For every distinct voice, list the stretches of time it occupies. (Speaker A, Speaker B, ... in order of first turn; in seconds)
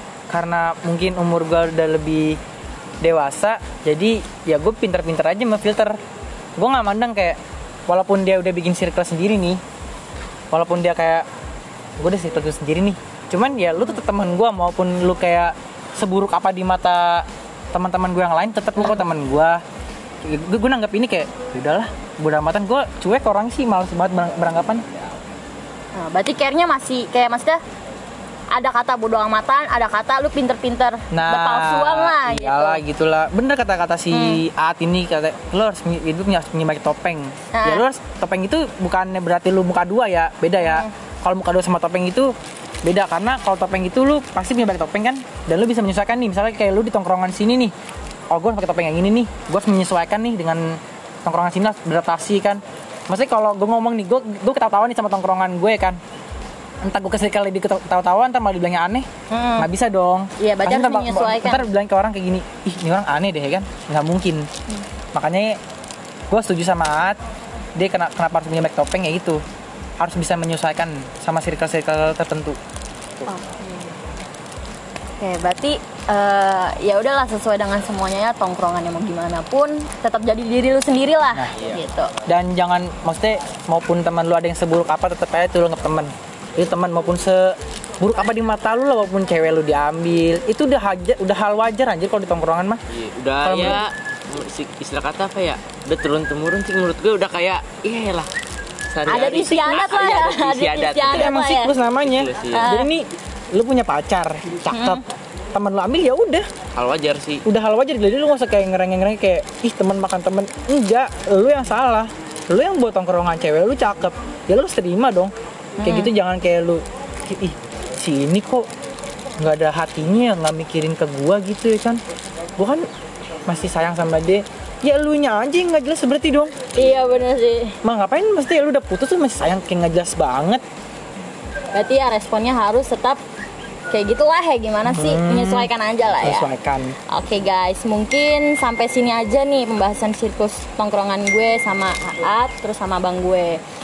Speaker A: 0.3-2.4, 3.0-6.0, 6.6-9.6, 10.5-11.3, 12.0-19.6, 20.2-24.8, 31.1-42.3, 42.8-47.7, 48.3-56.0, 56.8-59.1, 59.6-64.5, 65.1-65.6, 66.3-67.2, 67.8-69.4, 70.0-72.6, 82.3-92.8, 93.4-93.8, 99.1-99.6, 101.1-106.5, 107.4-118.7, 119.4-122.0, 122.6-122.8, 123.5-126.7, 127.8-130.6, 134.9-137.0
Speaker B: 25.9-27.6, 28.5-32.8, 34.1-34.4, 37.5-37.8, 40.6-40.9, 59.3-59.7, 60.4-61.7, 73.3-73.9, 75.2-82.1, 99.1-101.7, 102.5-102.9, 104.7-105.0, 115.8-116.1, 126.7-127.8, 131.7-133.2, 133.9-136.5, 137.1-143.6
Speaker C: 92.9-98.3, 98.9-101.3, 102.0-102.7, 106.7-107.5